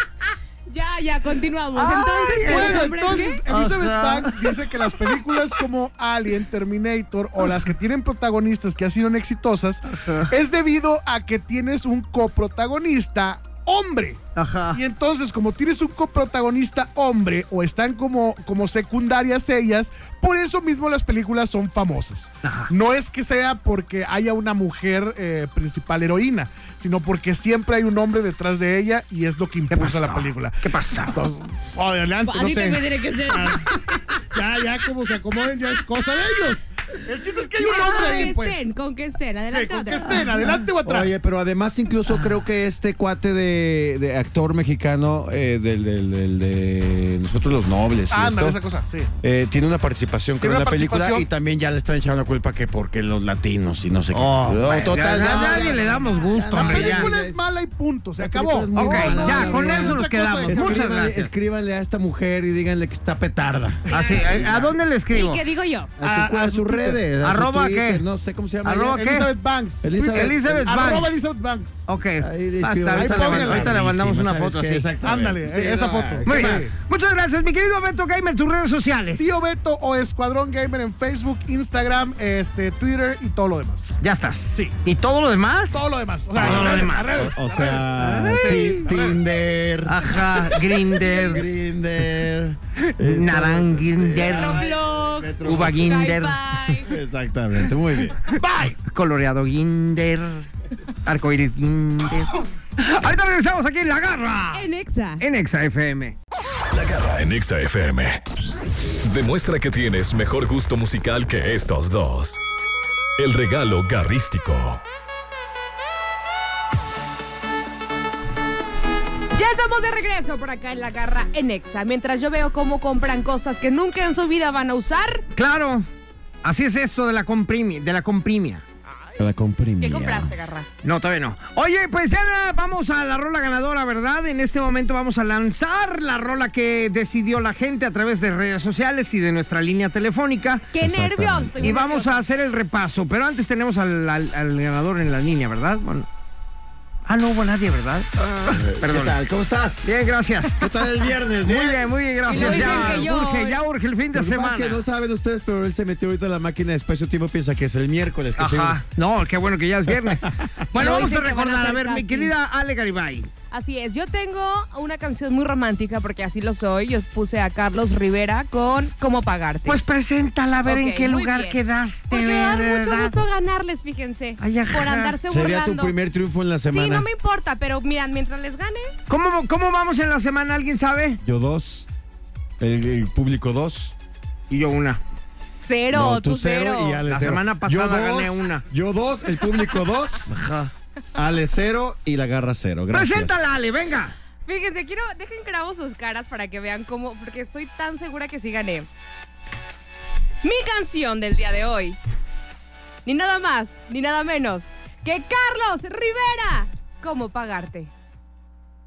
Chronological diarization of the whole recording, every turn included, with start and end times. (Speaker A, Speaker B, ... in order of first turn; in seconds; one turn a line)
Speaker A: 0.7-3.4
Speaker B: 1.8-5.2
Speaker C: 2.3-14.2
Speaker B: 10.0-10.3
Speaker B: 14.4-14.8
Speaker C: 14.7-38.7
Speaker B: 22.4-22.7
Speaker B: 29.7-31.3
Speaker A: 32.3-34.2
Speaker A: 37.6-40.1
Speaker C: 39.5-41.2
Speaker B: 40.0-40.5
Speaker D: 40.8-48.6
Speaker C: 48.1-49.1
Speaker D: 49.2-57.4
Speaker C: 50.4-51.2
Speaker B: 54.1-57.1
Speaker C: 55.1-55.7
Speaker A: 55.5-56.3
Speaker C: 56.5-60.8
Speaker D: 58.2-64.7
Speaker B: 58.8-61.3
Speaker A: 58.8-59.5
Speaker A: 63.9-64.6
Speaker B: 63.9-65.4
Speaker C: 63.9-64.6
Speaker A: 65.1-65.9
Speaker D: 66.0-69.0
Speaker C: 66.0-67.0
Speaker B: 67.2-68.0
Speaker B: 68.7-69.3
Speaker C: 68.8-71.8
Speaker D: 69.8-71.0
Speaker B: 70.1-71.2
Speaker B: 71.9-74.9
Speaker D: 72.2-76.7
Speaker C: 73.0-73.8
Speaker C: 75.0-76.7
Speaker B: 76.3-79.3
Speaker C: 79.2-84.0
Speaker B: 84.0-87.3
Speaker C: 85.7-89.3
Speaker D: 86.4-90.4
Speaker B: 88.3-88.8
Speaker B: 89.9-91.5
Speaker D: 91.0-96.0
Speaker B: 92.8-94.6
Speaker A: 94.3-96.9
Speaker B: 95.4-96.8
Speaker D: 96.8-98.2
Speaker B: 97.6-100.5
Speaker C: 98.3-98.8
Speaker B: 101.0-104.7
Speaker A: 104.5-105.2
Speaker B: 105.2-106.2
Speaker E: 106.7-108.2
Speaker E: 109.0-112.4
Speaker E: 113.2-114.8
Speaker A: 119.3-125.3
Speaker B: 125.3-125.9
Speaker B: 126.4-128.6
Speaker D: 129.2-130.3
Speaker A: 129.8-130.7
Speaker B: 130.8-140.7
Speaker A: 140.7-142.2
Speaker D: 140.8-141.7
Speaker B: 141.6-146.1
Speaker B: 147.1-149.2
Speaker D: 148.5-153.1
Speaker B: 149.8-150.7
Speaker B: 151.4-154.8
Speaker A: 152.3-153.6
Speaker D: 154.1-158.8
Speaker B: 158.4-163.3
Speaker D: 159.9-160.7
Speaker A: 160.7-162.3
Speaker A: 163.5-169.8
Speaker B: 169.7-173.2
Speaker A: 170.7-171.6
Speaker A: 172.1-175.9
Speaker B: 174.4-175.2
Speaker D: 175.3-177.1
Speaker A: 176.7-178.9
Speaker B: 179.1-181.2
Speaker D: 181.2-181.9
Speaker D: 182.6-183.9
Speaker B: 184.5-185.0
Speaker A: 185.6-187.0
Speaker D: 185.9-190.3
Speaker B: 187.1-188.7
Speaker B: 190.3-190.7
Speaker D: 191.1-193.4
Speaker B: 192.9-194.2
Speaker A: 194.5-198.9
Speaker A: 200.4-202.0
Speaker A: 203.1-207.9